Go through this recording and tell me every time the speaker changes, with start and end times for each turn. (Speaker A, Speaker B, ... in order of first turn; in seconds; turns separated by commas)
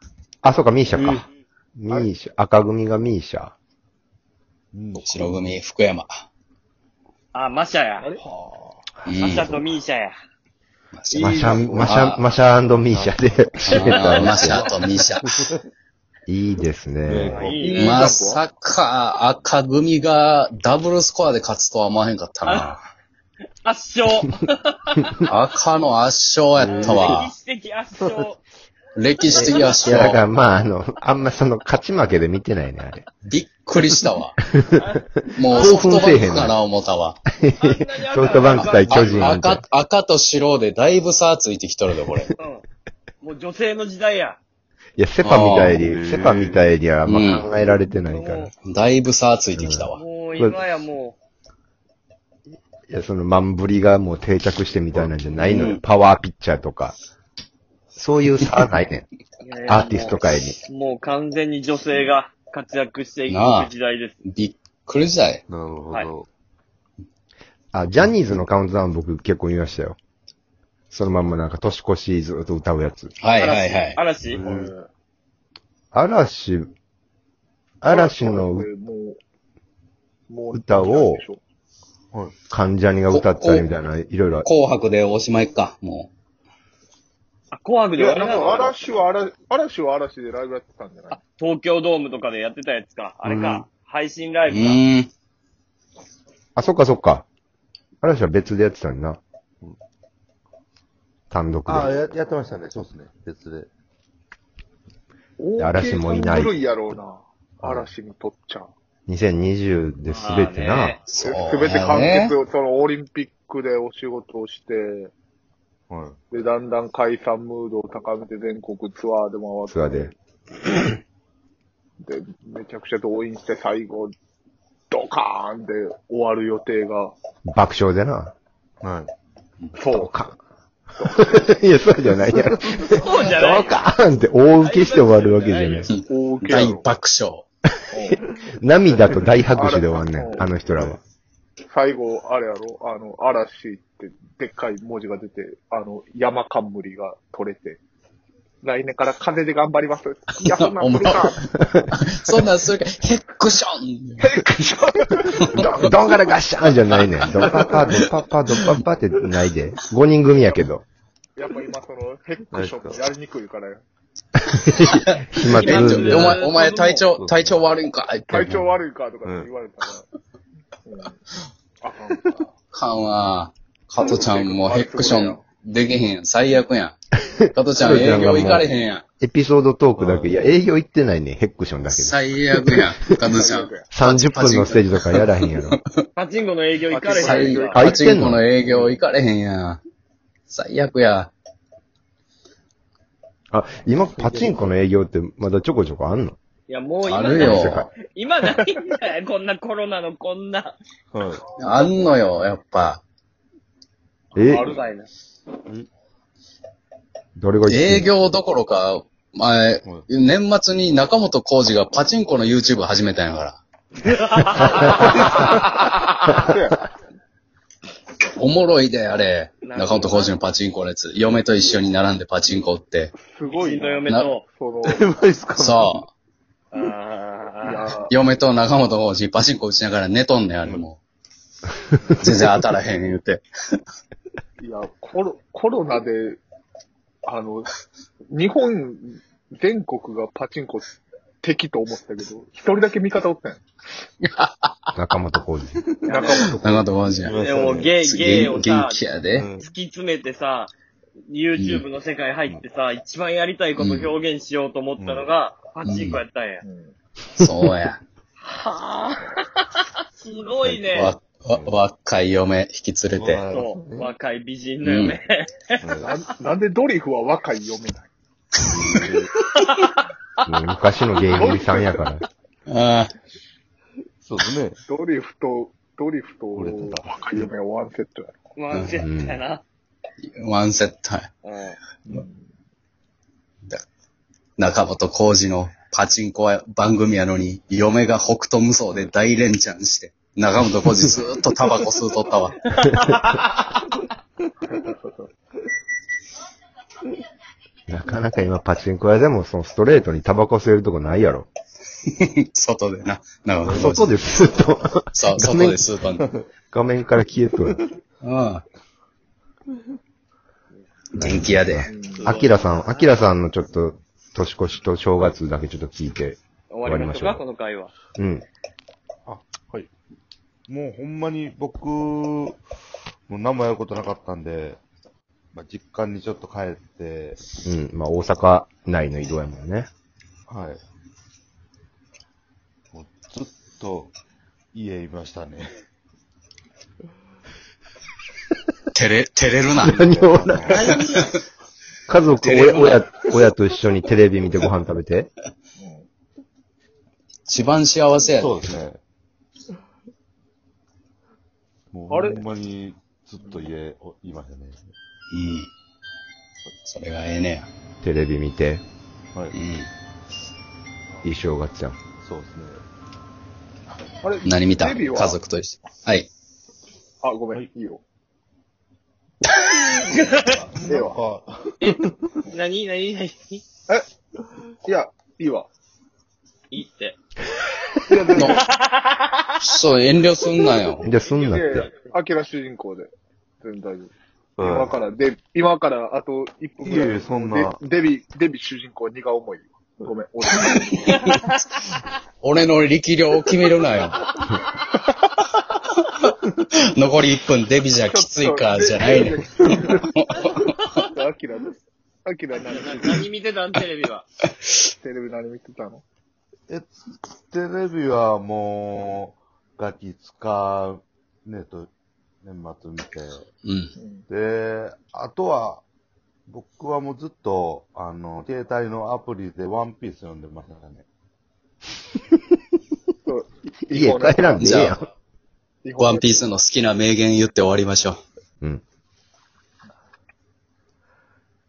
Speaker A: 0.4-1.3, Speaker A: 1.8-3.5, Speaker B: 4.7-5.4, Speaker C: 5.0-6.1, Speaker D: 7.3-8.1, Speaker B: 8.3-8.8, Speaker C: 9.1-9.5, Speaker A: 9.1-9.5, Speaker D: 9.2-10.2, Speaker C: 10.9-12.3, Speaker E: 11.2-11.9, Speaker A: 11.2-14.7, Speaker B: 12.7-13.2, Speaker C: 13.6-15.5, Speaker D: 13.8-14.6, Speaker A: 16.3-17.4, Speaker B: 17.1-17.9, Speaker D: 17.3-18.1, Speaker E: 17.6-18.4, Speaker C: 17.7-22.8, Speaker D: 22.4-22.7, Speaker D: 23.6-25.3, Speaker C: 25.3-27.3, Speaker B: 26.6-27.2, Speaker D: 26.7-28.4, Speaker C: 29.0-30.2, Speaker D: 29.3-29.9, Speaker A: 29.3-33.0, Speaker C: 33.2-34.4, Speaker A: 34.5-34.9, Speaker D: 34.8-36.2, Speaker C: 35.4-37.2, Speaker A: 35.4-36.6, Speaker A: 37.4-39.6, Speaker D: 37.6-39.3, Speaker C: 38.5-42.3, Speaker B: 38.6-39.1, Speaker D: 42.4-42.6, Speaker D: 43.2-44.4, Speaker A: 45.0-48.5, Speaker C: 45.2-45.8, Speaker B: 45.8-46.7, Speaker C: 47.0-47.5, Speaker D: 47.9-48.5, Speaker C: 48.6-50.0, Speaker A: 49.5-50.6, Speaker D: 50.0-51.2, Speaker A: 52.9-57.0, Speaker C: 55.4-55.8, Speaker A: 58.0-59.1, Speaker D: 59.4-64.2, Speaker A: 59.7-60.6, Speaker C: 63.3-63.7, Speaker C: 64.3-65.4, Speaker B: 65.5-66.3, Speaker A: 67.7-70.0, Speaker A: 70.9-73.1, Speaker C: 73.2-74.0, Speaker D: 73.3-74.4, Speaker B: 74.2-74.7, Speaker E: 74.3-74.9, Speaker A: 75.9-76.7, Speaker A: 77.8-78.7, Speaker E: 77.8-79.2, Speaker E: 80.3-81.4, Speaker A: 80.5-81.2, Speaker A: 82.5-84.5, Speaker C: 83.1-83.7, Speaker C: 84.4-86.1, Speaker D: 87.5-88.7, Speaker E: 88.0-91.2, Speaker D: 91.1-94.8, Speaker A: 93.3-93.6, Speaker C: 94.5-95.1, Speaker A: 96.6-97.3, Speaker A: 98.0-99.2, Speaker A: 101.3-102.0, Speaker B: 101.7-103.7, Speaker E: 105.4-108.7, Speaker A: 105.6-106.5, Speaker B: 107.6-107.9, Speaker A: 109.1-111.0, Speaker D: 110.0-111.0, Speaker C: 111.1-112.3, Speaker E: 111.2-115.1, Speaker B: 115.9-116.2, Speaker E: 116.3-120.1, Speaker A: 119.7-120.1, Speaker E: 122.0-124.1, Speaker E: 124.9-127.1, Speaker A: 127.5-128.3, Speaker B: 128.8-129.1, Speaker E: 129.8-130.1, Speaker A: 129.9-130.4, Speaker A: 131.0-135.9, Speaker B: 132.5-132.8, Speaker D: 132.9-133.8, Speaker D: 134.6-135.9, Speaker C: 135.9-137.4, Speaker E: 136.1-136.9, Speaker E: 137.9-138.2, Speaker A: 138.1-141.0, Speaker E: 139.5-140.5, Speaker B: 140.4-141.0, Speaker E: 141.7-147.8, Speaker E: 148.6-151.4, Speaker C: 150.4-154.3, Speaker A: 151.6-151.9, Speaker E: 154.2-155.9, Speaker C: 155.4-155.9, Speaker A: 155.5-160.8, Speaker C: 156.9-158.8, Speaker E: 157.4-157.9, Speaker E: 161.4-163.8, Speaker B: 162.5-163.1, Speaker A: 164.4-166.4, Speaker C: 164.9-168.5, Speaker D: 165.6-167.1, Speaker B: 167.1-167.5, Speaker E: 168.3-170.1, Speaker B: 169.2-169.6, Speaker E: 170.9-171.2, Speaker E: 171.8-172.4, Speaker C: 172.7-177.0, Speaker E: 174.0-175.4, Speaker A: 177.2-183.3, Speaker C: 177.5-179.0, Speaker B: 180.0-180.5, Speaker C: 181.9-185.8, Speaker E: 183.3-183.9, Speaker A: 183.9-185.8, Speaker D: 186.2-187.8, Speaker E: 186.9-188.1, Speaker C: 187.1-189.8, Speaker A: 187.7-188.4, Speaker C: 190.5-191.3, Speaker A: 193.5-196.4, Speaker B: 194.2-194.7, Speaker D: 196.7-200.8, Speaker C: 197.0-197.9, Speaker A: 197.4-197.9, Speaker B: 201.1-201.4, Speaker C: 201.6-203.0, Speaker A: 204.3-204.8, Speaker E: 204.5-204.8, Speaker D: 204.5-205.1, Speaker A: 207.4-208.1, Speaker C: 207.7-213.6, Speaker D: 214.0-216.1, Speaker B: 214.9-215.8, Speaker C: 215.0-215.4, Speaker E: 216.3-216.9, Speaker C: 218.4-223.1, Speaker D: 219.6-220.4, Speaker E: 223.2-225.1, Speaker D: 223.5-224.4, Speaker C: 224.1-224.4, Speaker B: 224.8-226.0, Speaker C: 225.6-226.1, Speaker D: 226.7-227.9, Speaker E: 227.6-228.1, Speaker C: 228.1-231.0, Speaker C: 232.2-233.8, Speaker E: 234.6-236.4, Speaker E: 237.2-237.8, Speaker E: 238.3-243.6, Speaker C: 244.2-244.7, Speaker A: 245.0-245.9, Speaker D: 246.1-246.5, Speaker E: 246.1-246.8, Speaker C: 246.6-247.4, Speaker B: 247.2-248.0, Speaker D: 247.3-249.0, Speaker C: 248.0-249.5, Speaker B: 249.3-249.7, Speaker D: 249.6-250.7, Speaker D: 251.3-256.6, Speaker C: 251.6-251.8, Speaker C: 253.8-254.2, Speaker B: 255.0-255.3, Speaker C: 255.8-256.2, Speaker E: 256.6-256.9, Speaker C: 257.4-258.0, Speaker D: 258.4-261.2, Speaker B: 260.6-261.8, Speaker C: 260.9-263.4, Speaker B: 263.1-264.1, Speaker D: 263.5-265.8, Speaker C: 264.8-265.2, Speaker B: 265.8-266.2, Speaker E: 266.0-268.1, Speaker B: 268.6-269.3, Speaker D: 269.6-270.1, Speaker A: 270.5-272.2, Speaker E: 271.3-272.1, Speaker C: 272.7-273.1, Speaker B: 274.2-274.8, Speaker E: 274.9-278.4, Speaker B: 276.6-277.5, Speaker D: 278.6-279.6, Speaker C: 278.7-279.0, Speaker A: 279.0-279.4, Speaker C: 280.2-281.3, Speaker D: 281.4-281.8, Speaker E: 282.1-282.4, Speaker C: 284.6-292.6, Speaker D: 292.8-293.4, Speaker A: 297.9-301.5, Speaker C: 302.2-304.2, Speaker B: 303.7-304.5, Speaker A: 303.7-305.8, Speaker C: 305.1-306.3, Speaker B: 306.2-306.4, Speaker A: 306.7-307.8, Speaker C: 308.2-308.6, Speaker C: 311.1-311.9, Speaker A: 311.2-317.4, Speaker E: 311.9-312.3, Speaker D: 312.2-313.2, Speaker D: 316.7-317.9, Speaker A: 318.2-318.5, Speaker B: 319.3-319.9, Speaker B: 320.7-322.6, Speaker B: 323.3-324.8, Speaker B: 325.5-327.4, Speaker A: 327.6-329.9, Speaker B: 330.5-330.8, Speaker B: 332.9-334.1, Speaker B: 334.7-335.8, Speaker C: 338.9-340.0, Speaker A: 339.8-340.9, Speaker B: 339.9-340.9, Speaker D: 340.7-341.3, Speaker A: 342.1-345.3, Speaker C: 342.4-343.1, Speaker E: 345.8-346.1, Speaker C: 347.5-348.7, Speaker B: 348.3-349.0, Speaker B: 351.9-354.9, Speaker E: 352.1-352.5, Speaker E: 353.4-353.7, Speaker C: 355.3-355.7, Speaker C: 356.9-357.7, Speaker A: 358.0-358.8, Speaker C: 359.5-359.9, Speaker A: 361.2-362.0, Speaker B: 362.2-362.8, Speaker E: 364.2-365.4, Speaker C: 364.4-366.3, Speaker E: 367.2-368.0, Speaker D: 369.9-370.5, Speaker B: 370.4-372.3, Speaker E: 370.8-371.2, Speaker D: 371.8-373.6, Speaker E: 374.9-375.7, Speaker D: 376.7-377.2, Speaker E: 378.1-378.6, Speaker C: 378.3-378.6, Speaker D: 378.4-379.4, Speaker C: 379.6-381.1, Speaker A: 381.0-381.9, Speaker E: 381.3-383.1, Speaker E: 383.6-391.3, Speaker B: 384.6-384.9, Speaker B: 386.8-387.8, Speaker D: 391.1-391.5, Speaker C: 392.4-394.2, Speaker C: 396.0-400.9, Speaker E: 398.1-400.1, Speaker E: 401.0-403.3, Speaker D: 402.6-404.3, Speaker E: 405.0-406.0, Speaker B: 406.7-411.9, Speaker B: 412.4-413.5, Speaker C: 413.6-413.9, Speaker E: 414.0-414.2, Speaker B: 414.3-415.8, Speaker B: 416.5-421.1, Speaker E: 423.2-425.0, Speaker A: 423.9-425.1, Speaker C: 424.6-425.0, Speaker E: 425.8-426.5, Speaker C: 426.0-428.2